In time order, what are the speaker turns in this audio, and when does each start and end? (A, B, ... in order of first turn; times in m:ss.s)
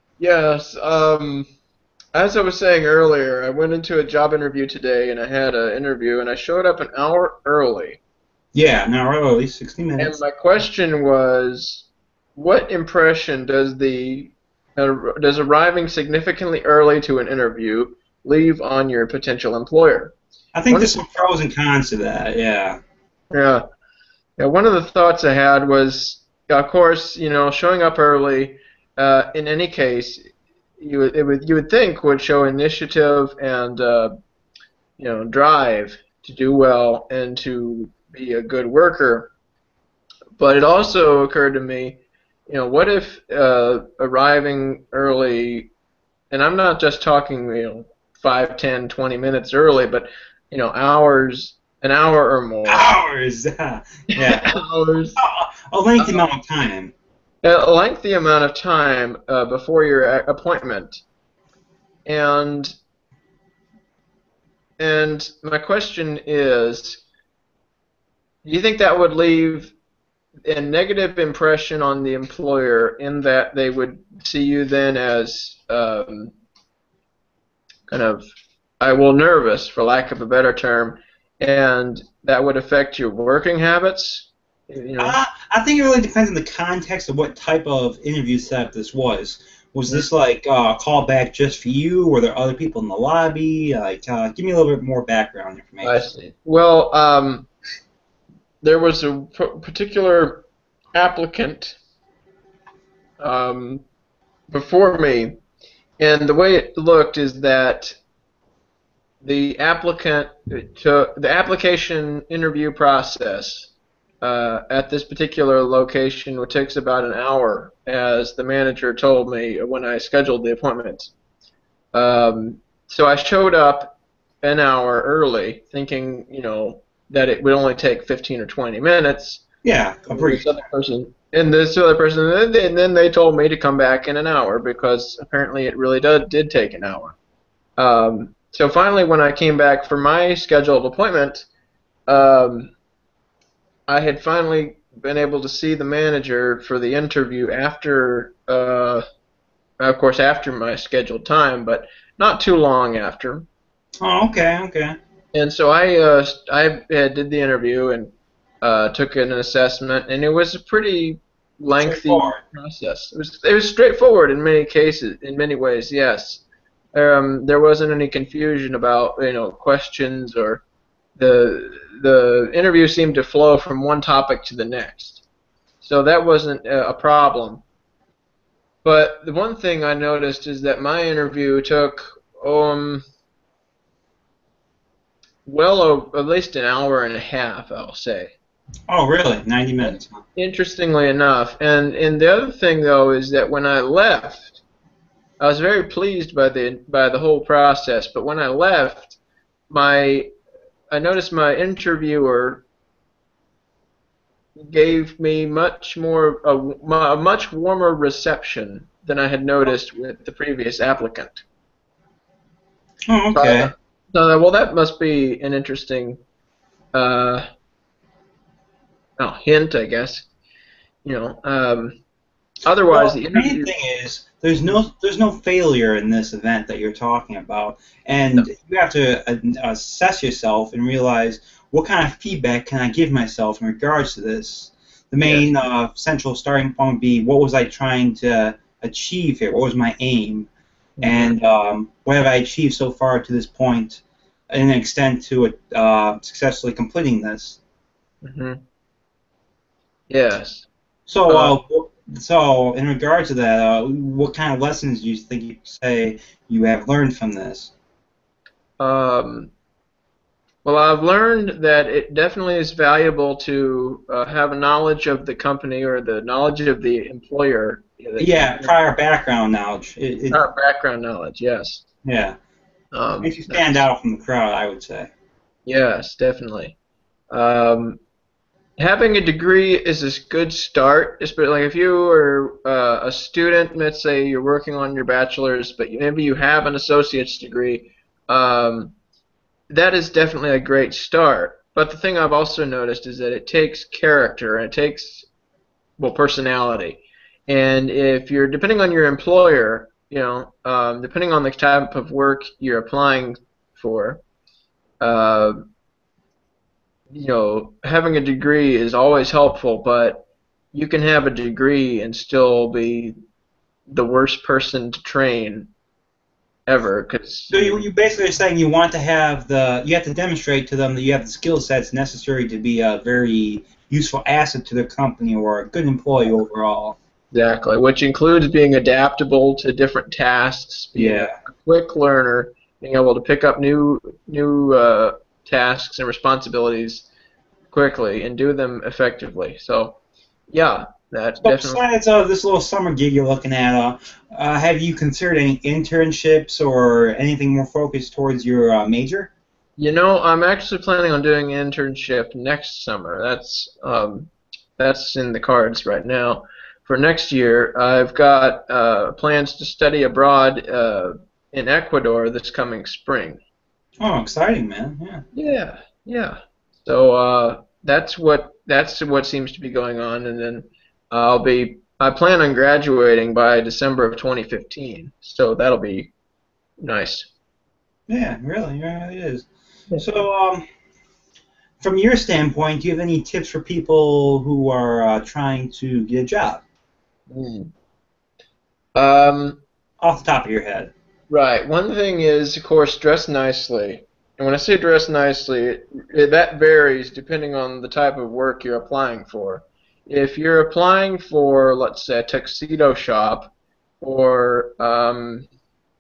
0:00.2-0:01.5 A
0:02.2-0:08.0 A
0:08.5-0:10.2 B
0:10.0-0:20.1 A
0:20.6-0:22.8 B
0:20.7-0:21.2 A
0:23.3-0:23.6 A
0:24.4-0:30.3 A
0:30.8-0:34.1 A
0:35.0-0:39.3 A
0:40.4-0:45.7 A
0:46.3-0:52.9 A
0:52.7-0:54.5 B
0:54.1-0:55.2 A
0:55.2-0:56.9 B
0:56.0-0:56.2 A
0:57.4-1:01.0 A
1:02.1-1:02.7 A
1:04.8-1:07.0 A
1:08.4-1:09.7 A
1:10.4-1:16.3 A
1:17.9-1:18.2 A
1:18.8-1:25.2 A
1:25.0-1:36.1 B
1:35.8-1:37.5 A
1:38.6-1:41.8 A
1:43.2-1:43.8 A
1:44.5-1:45.4 A
1:46.0-1:47.9 A
1:49.2-2:01.1 A
2:01.9-2:09.4 A
2:09.6-2:10.6 B
2:10.1-2:17.2 A
2:17.8-2:21.5 A
2:22.1-2:22.7 A
2:23.9-2:29.0 A
2:29.8-2:33.5 A
2:34.0-2:35.0 B
2:35.3-2:46.4 A
2:41.8-2:42.4 B
2:46.9-2:50.6 A
2:51.2-2:55.2 A
2:55.8-2:57.6 A
2:58.8-3:03.0 A
3:05.4-3:08.3 A
3:08.9-3:10.2 B
3:09.8-3:14.6 A
3:15.4-3:19.2 A
3:19.7-3:20.3 A
3:20.9-3:22.6 A
3:24.6-3:31.4 A
3:33.1-3:33.7 B
3:33.3-3:36.2 A
3:36.9-3:37.4 A
3:39.2-3:40.3 A
3:41.0-3:42.0 A
3:42.6-3:43.7 A
3:42.9-4:00.5 B
3:55.2-3:55.5 A
4:01.0-4:01.4 A
4:01.0-4:07.6 B
4:08.2-4:08.6 A
4:10.1-4:10.7 A
4:11.1-4:17.7 B
4:11.3-4:11.6 A
4:18.8-4:19.5 A
4:20.6-4:28.8 A
4:28.2-4:30.4 B
4:30.3-4:31.8 A
4:32.0-4:32.3 B
4:32.9-4:33.8 A
4:33.2-4:35.1 B
4:35.6-4:36.8 A
4:37.3-4:38.0 A
4:38.8-4:48.9 A
4:49.7-4:55.2 A
4:56.0-5:04.2 A
5:05.0-5:05.5 A
5:07.1-5:13.1 A
5:13.9-5:15.7 A
5:16.7-5:17.8 A
5:17.5-5:27.0 B
5:27.3-5:37.1 A
5:30.9-5:31.3 B
5:37.7-5:40.0 A
5:40.5-5:41.8 A
5:41.4-5:49.3 B
5:49.8-6:03.4 A
6:04.0-6:05.2 B
6:05.3-6:16.1 A
6:16.8-6:17.3 A
6:18.1-6:20.6 B
6:21.8-6:26.6 B
6:27.3-6:27.7 A
6:28.9-6:29.6 A
6:30.0-6:30.9 B
6:31.3-6:45.5 A